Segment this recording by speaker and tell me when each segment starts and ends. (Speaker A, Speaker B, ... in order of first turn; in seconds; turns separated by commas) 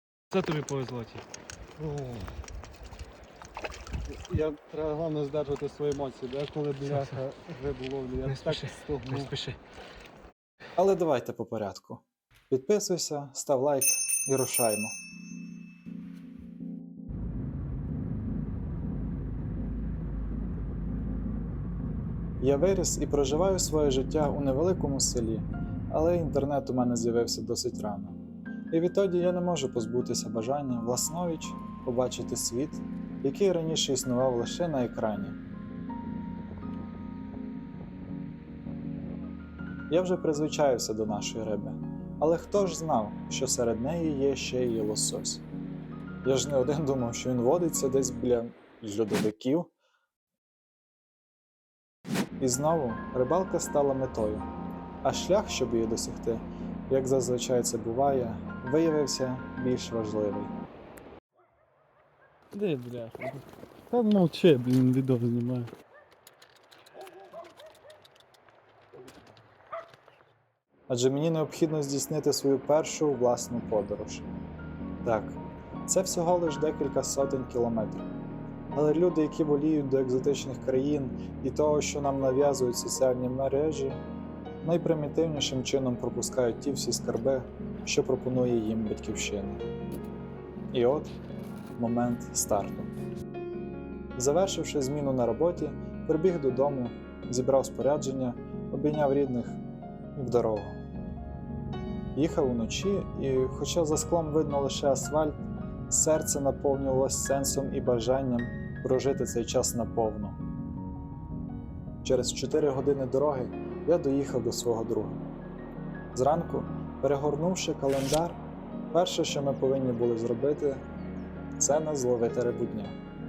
Speaker A: 0.3-1.2, Speaker B: 1.8-2.3, Speaker B: 4.1-9.3, Speaker A: 6.8-7.2, Speaker A: 8.2-9.6, Speaker C: 10.8-14.9, Speaker C: 22.4-28.2, Speaker C: 28.7-35.4, Speaker C: 39.9-45.4, Speaker C: 46.2-49.7, Speaker C: 52.4-54.4, Speaker C: 55.0-60.5, Speaker B: 62.5-65.7, Speaker C: 70.9-74.3, Speaker C: 75.0-78.1, Speaker C: 78.7-84.0, Speaker C: 84.6-89.6, Speaker C: 90.7-91.1, Speaker C: 91.8-92.9, Speaker C: 94.2-99.6, Speaker C: 100.1-100.8, Speaker C: 102.1-110.4, Speaker C: 112.0-115.2, Speaker C: 116.1-118.4, Speaker C: 118.9-120.8, Speaker C: 121.6-123.0